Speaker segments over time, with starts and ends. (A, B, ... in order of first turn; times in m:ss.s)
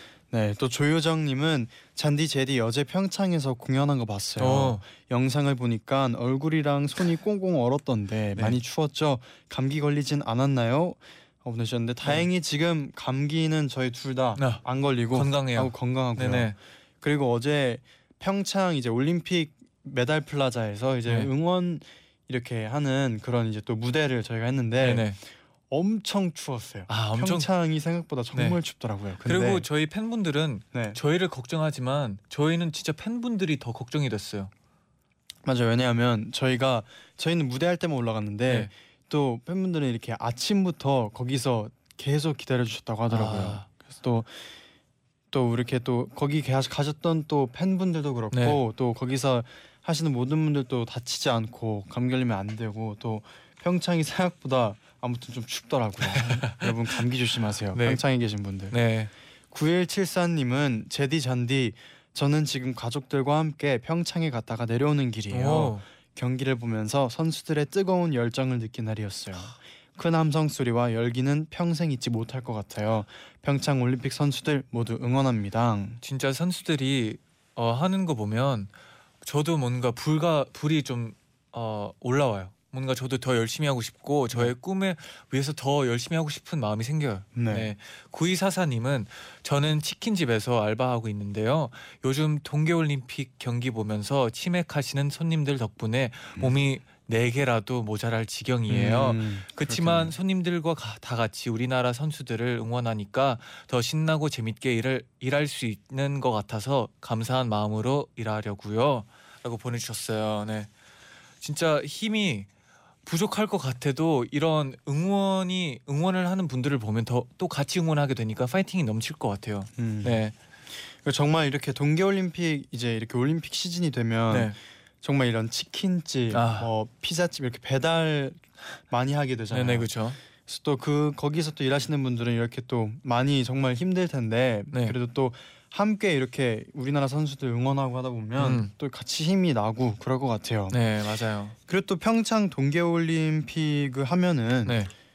0:00.3-0:25.2 A
0:04.4-0:04.8 B
0:14.4-0:16.6 B
0:21.1-0:21.3 B
0:24.8-0:25.2 B
0:25.7-0:29.7 A
0:26.9-0:27.5 B
0:28.3-0:28.6 B
0:29.2-0:34.5 B
0:30.7-0:31.0 A
0:35.4-0:44.4 A
0:43.1-0:43.7 B
0:45.3-0:58.8 A
0:48.3-0:48.6 B
0:56.2-0:56.7 B
0:57.7-0:58.0 B
0:58.7-0:59.1 B
0:59.5-1:16.0 A
1:05.3-1:05.8 B
1:16.0-1:18.7 B
1:19.2-1:50.7 B
1:27.4-1:27.7 A
1:38.7-1:40.2 A
1:51.4-1:52.5 B
1:53.0-2:00.3 B
1:59.8-2:00.2 A
2:01.0-2:10.0 A
2:04.3-2:04.6 B
2:06.3-2:06.7 B
2:09.5-2:10.2 B
2:10.5-2:20.8 A
2:18.4-2:18.7 B
2:20.7-2:21.6 B
2:21.7-2:24.8 A
2:24.7-2:24.9 B